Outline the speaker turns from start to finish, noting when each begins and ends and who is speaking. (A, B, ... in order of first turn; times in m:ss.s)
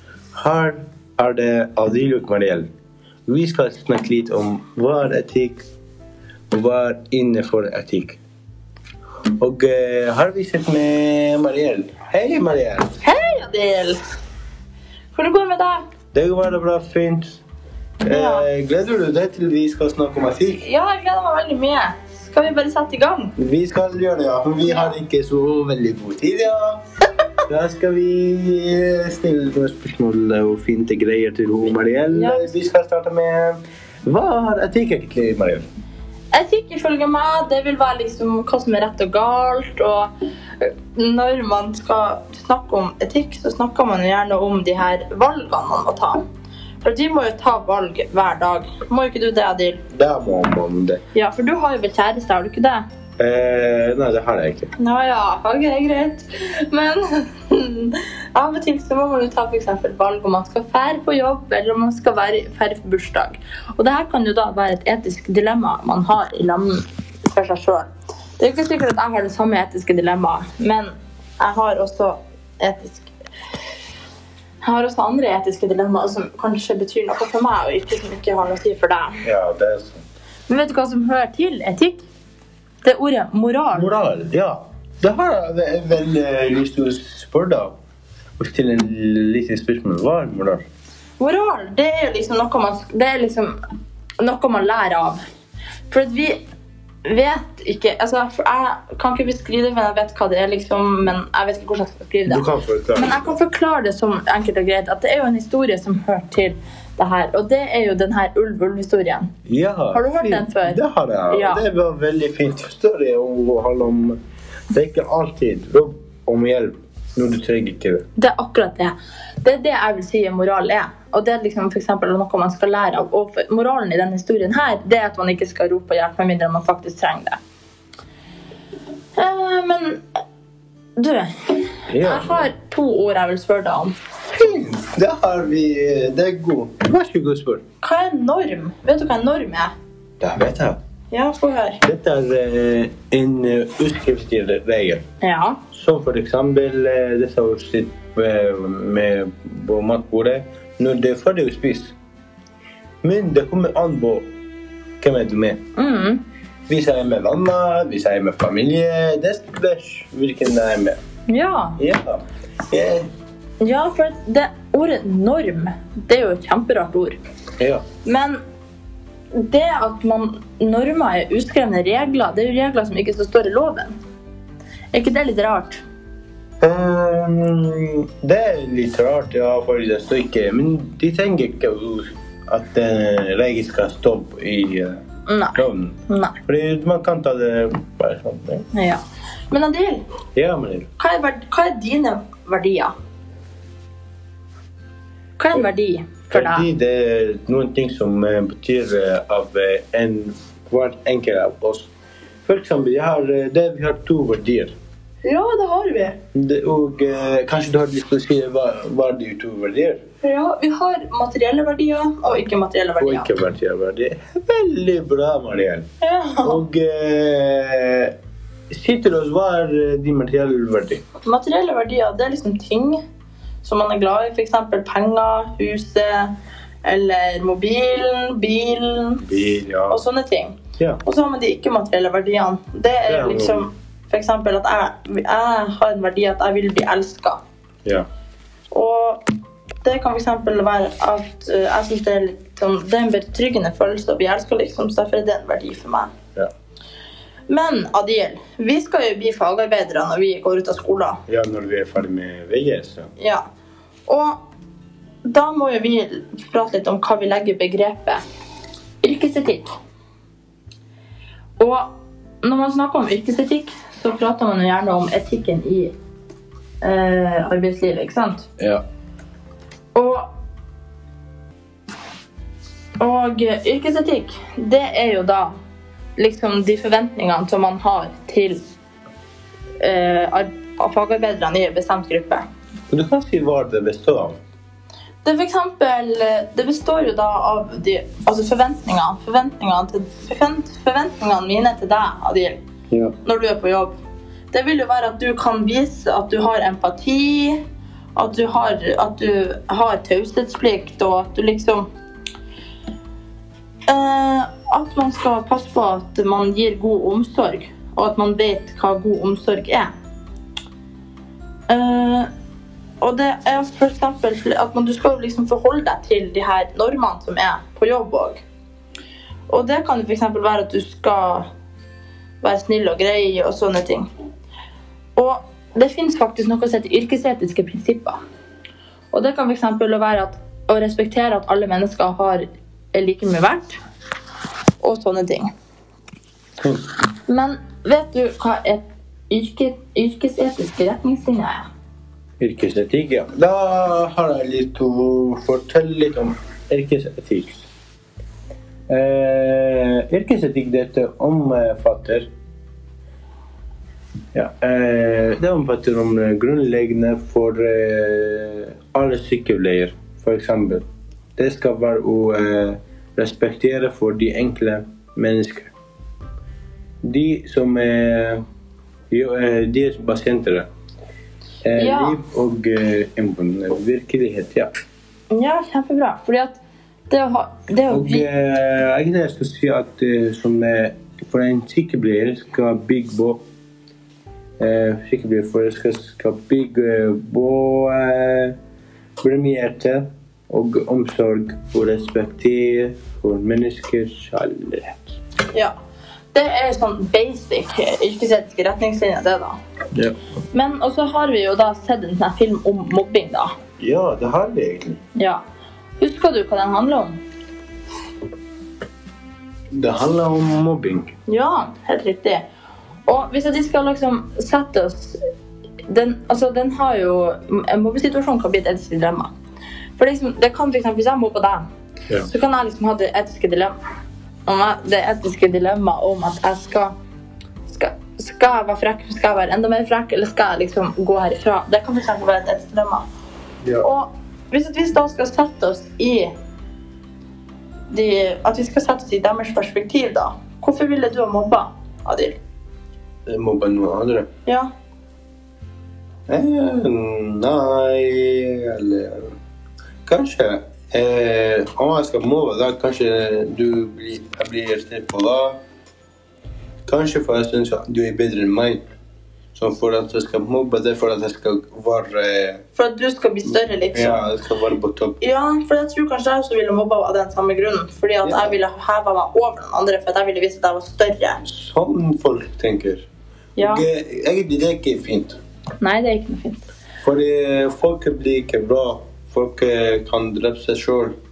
0:00.3-0:02.7 A
0:03.3-0:05.6 A
0:06.5-0:08.2 A
0:09.4-0:13.0 A
0:13.0-0:14.0 B
0:15.1-0:15.8 B
0:16.1-0:17.4 A
0:18.0-0:20.6 A
0:18.0-0:18.4 B
0:20.6-0:23.3 B
0:23.4-0:26.8 A
0:24.6-0:24.9 B
0:27.5-0:35.7 A
0:32.1-0:32.5 B
0:36.3-0:46.2 B
0:46.8-0:49.8 B
0:49.9-0:51.0 A
0:51.1-0:52.8 B
0:53.2-0:54.7 A
0:54.8-1:07.9 B
1:08.4-1:13.1 B
1:14.6-1:19.2 B
1:19.2-1:20.0 A
1:20.5-1:22.0 B
1:22.8-1:23.9 B
1:23.7-1:27.7 A
1:28.4-1:30.6 A
1:31.2-1:33.6 B
1:34.2-1:35.2 B
1:35.9-1:36.4 B
1:37.0-1:42.4 B
1:42.3-1:43.3 A
1:43.0-1:49.3 B
1:49.4-1:54.2 A
1:49.9-1:51.6 B
1:54.7-1:58.0 A
1:58.2-2:07.4 B
2:09.2-2:10.0 B
2:11.0-2:13.9 B
2:11.9-2:12.5 A
2:14.3-2:17.6 A
2:17.8-2:19.7 B
2:20.2-2:20.8 A
2:21.1-2:21.8 B
2:21.8-2:25.0 A
2:25.2-2:25.6 B
2:25.7-2:31.9 A
2:33.0-2:34.2 A
2:35.0-2:35.6 A
2:35.8-2:36.2 B
2:36.7-2:41.0 A
2:41.3-2:41.8 B
2:41.8-2:43.1 A
2:43.6-2:47.2 B
2:47.6-2:47.8 A
2:48.0-2:48.4 B
2:49.3-2:54.0 B
2:54.9-2:55.8 B
2:56.6-3:05.0 A
3:05.2-3:06.4 B
3:05.5-3:08.7 A
3:08.7-3:10.0 B
3:10.3-3:10.9 A
3:11.0-3:12.9 B
3:15.4-3:16.7 B
3:16.3-3:21.9 A
3:22.4-3:24.7 A
3:25.2-3:26.2 B
3:26.3-3:30.0 A
3:30.2-3:33.3 B
3:33.0-3:35.8 A
3:36.0-3:36.6 B
3:36.4-3:38.1 A
3:38.7-3:41.0 A
3:41.2-3:43.0 B
3:43.6-3:49.2 B
3:49.2-3:50.0 A
3:49.9-3:57.4 B
3:53.1-3:53.7 A
3:58.7-3:59.2 B
3:59.8-4:06.1 B
4:07.5-4:11.2 B
4:11.3-4:13.1 A
4:13.2-4:13.4 B
4:14.1-4:14.4 B
4:15.2-4:18.2 B
4:19.0-4:19.7 B
4:21.6-4:25.9 B
4:26.8-4:28.5 B
4:29.9-4:30.3 B
4:33.0-4:35.6 B
4:36.2-4:38.6 B
4:39.8-4:42.4 B
4:42.9-4:44.4 A
4:45.2-4:52.6 B
4:53.2-4:53.9 B
4:54.5-4:57.6 B
4:58.1-5:01.9 B
5:03.9-5:09.9 B
5:11.7-5:12.3 B
5:13.0-5:18.4 B
5:19.5-5:21.4 B
5:22.4-5:24.1 B
5:25.2-5:28.2 B
5:29.1-5:33.8 B
5:34.8-5:35.5 B
5:37.3-5:41.7 B
5:42.4-5:47.6 A
5:48.9-5:52.3 A
5:54.3-6:00.8 A
6:01.4-6:05.7 A
6:07.0-6:08.4 A
6:09.1-6:10.7 A
6:11.6-6:14.7 A
6:11.8-6:12.2 B
6:15.3-6:18.3 B
6:17.9-6:23.4 A
6:24.6-6:28.6 A
6:29.2-6:35.2 A
6:36.3-6:39.6 B
6:40.5-6:43.5 B
6:43.8-6:45.0 A
6:45.2-6:45.4 B
6:46.0-6:47.2 B
6:49.7-6:51.1 A
6:51.3-6:52.4 B
6:53.0-6:55.2 B
6:55.9-6:59.3 B
7:00.0-7:01.6 B
7:02.2-7:03.8 B
7:04.5-7:06.9 B
7:07.7-7:13.0 B
7:13.8-7:16.3 B
7:17.9-7:22.4 B
7:23.3-7:24.3 A
7:26.3-7:29.4 A
7:30.0-7:35.6 A
7:36.8-7:38.8 A
7:39.5-7:42.6 A
7:42.8-7:44.2 B
7:43.4-7:45.2 A
7:45.2-7:51.4 B
7:48.2-7:48.5 A
7:51.4-7:55.4 A
7:53.6-7:53.8 B
7:55.8-7:56.6 B
7:57.0-8:01.1 A